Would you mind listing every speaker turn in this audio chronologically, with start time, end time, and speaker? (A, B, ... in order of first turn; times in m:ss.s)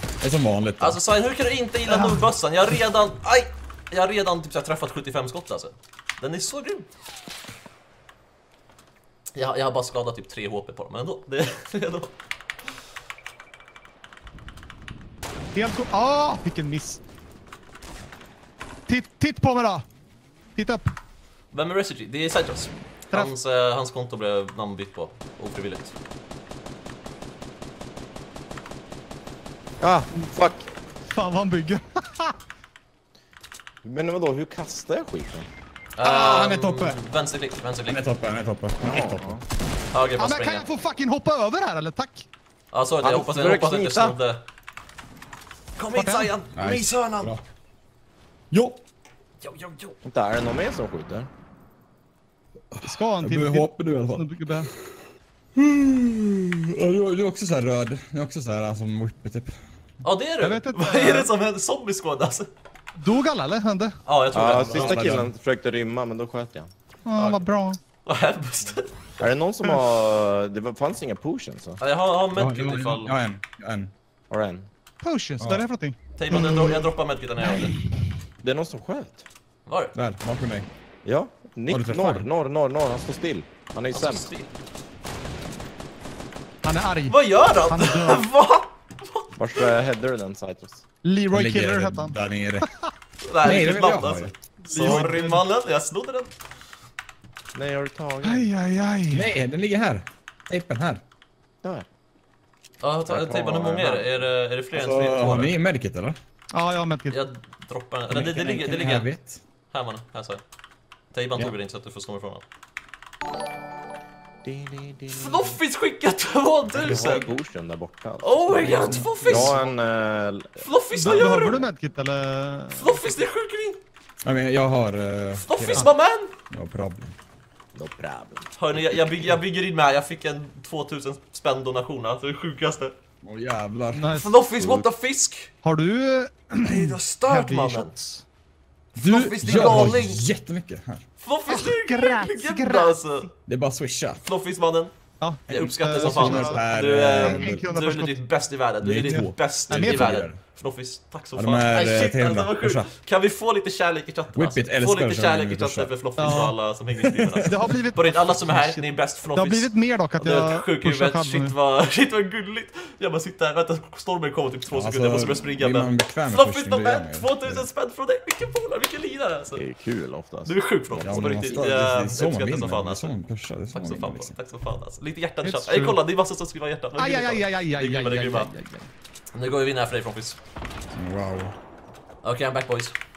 0:00.2-0:01.0 A
0:00.8-0:06.9 B
0:01.9-0:02.2 C
0:09.3-0:12.1 B
0:15.5-0:17.0 C
0:18.9-0:19.8 C
0:20.5-0:20.9 C
0:21.5-0:25.9 B
0:29.8-0:30.7 D
0:31.1-0:32.3 C
0:33.8-0:35.5 D
0:36.0-0:38.0 B
0:36.0-0:37.0 A
0:37.8-0:39.4 A
0:38.8-0:39.4 D
0:39.9-0:40.6 B
0:40.2-0:42.3 C
0:42.7-0:44.4 B
0:43.0-0:44.2 D
0:45.8-0:47.3 B
0:45.9-0:46.3 C
0:46.5-0:47.4 A
0:48.5-0:48.8 A
0:49.4-0:50.0 B
0:50.0-0:51.3 D
0:52.7-0:54.2 A
0:52.8-0:54.7 C
0:55.6-0:59.6 A
1:00.0-1:02.5 B
1:00.4-1:01.3 C
1:03.0-1:04.0 C
1:04.0-1:05.1 B
1:04.3-1:06.7 D
1:04.5-1:05.3 A
1:07.0-1:07.8 C
1:07.2-1:07.4 B
1:08.0-1:09.2 B
1:09.2-1:11.8 D
1:11.8-1:13.2 B
1:12.3-1:13.9 A
1:14.3-1:14.7 D
1:15.0-1:16.5 C
1:16.2-1:17.7 B
1:17.4-1:18.0 C
1:18.4-1:19.2 D
1:19.6-1:19.9 B
1:19.9-1:20.7 A
1:21.0-1:24.2 D
1:21.7-1:22.2 A
1:23.9-1:24.5 B
1:26.6-1:28.2 C
1:27.1-1:29.9 B
1:29.4-1:30.8 D
1:31.0-1:32.6 C
1:31.3-1:32.6 A
1:33.2-1:36.3 B
1:33.4-1:34.3 A
1:34.6-1:35.4 C
1:37.5-1:38.5 D
1:38.2-1:39.3 C
1:39.1-1:41.0 A
1:42.8-1:45.6 B
1:43.1-1:44.2 D
1:44.7-1:46.2 A
1:46.5-1:47.2 C
1:47.1-1:49.1 B
1:48.1-1:49.4 A
1:49.7-1:50.4 B
1:51.1-1:52.4 B
1:54.4-1:55.6 D
1:55.1-1:57.3 B
1:56.7-2:01.2 D
1:58.2-1:59.7 B
1:58.6-1:59.1 A
2:00.6-2:01.6 B
2:00.9-2:03.2 C
2:02.7-2:03.8 B
2:04.2-2:05.9 A
2:05.4-2:06.3 B
2:06.5-2:07.1 A
2:07.8-2:08.5 D
2:08.5-2:12.9 B
2:13.2-2:14.1 A
2:13.9-2:14.4 C
2:14.1-2:15.5 B
2:14.6-2:14.9 D
2:15.6-2:18.2 C
2:16.6-2:17.9 B
2:19.0-2:20.2 B
2:19.0-2:21.0 A
2:19.4-2:19.9 C
2:21.2-2:23.3 B
2:21.5-2:23.0 C
2:23.5-2:24.2 A
2:24.2-2:24.9 B
2:25.2-2:26.6 C
2:25.5-2:49.6 B
2:25.9-2:27.6 A
2:27.2-2:28.2 C
2:28.8-2:30.4 A
2:29.7-2:30.2 C
2:31.4-2:32.9 A
2:34.3-2:35.9 A
2:36.2-2:36.6 C
2:37.1-2:37.7 A
2:37.4-2:41.6 C
2:44.7-2:47.7 A
2:49.5-2:51.6 D
2:50.4-2:53.2 B
2:50.9-2:54.3 A
2:53.7-2:58.5 B
2:55.4-2:56.0 C
2:57.0-2:58.9 C
2:59.3-3:00.4 B
3:00.9-3:01.5 A
3:02.2-3:02.9 B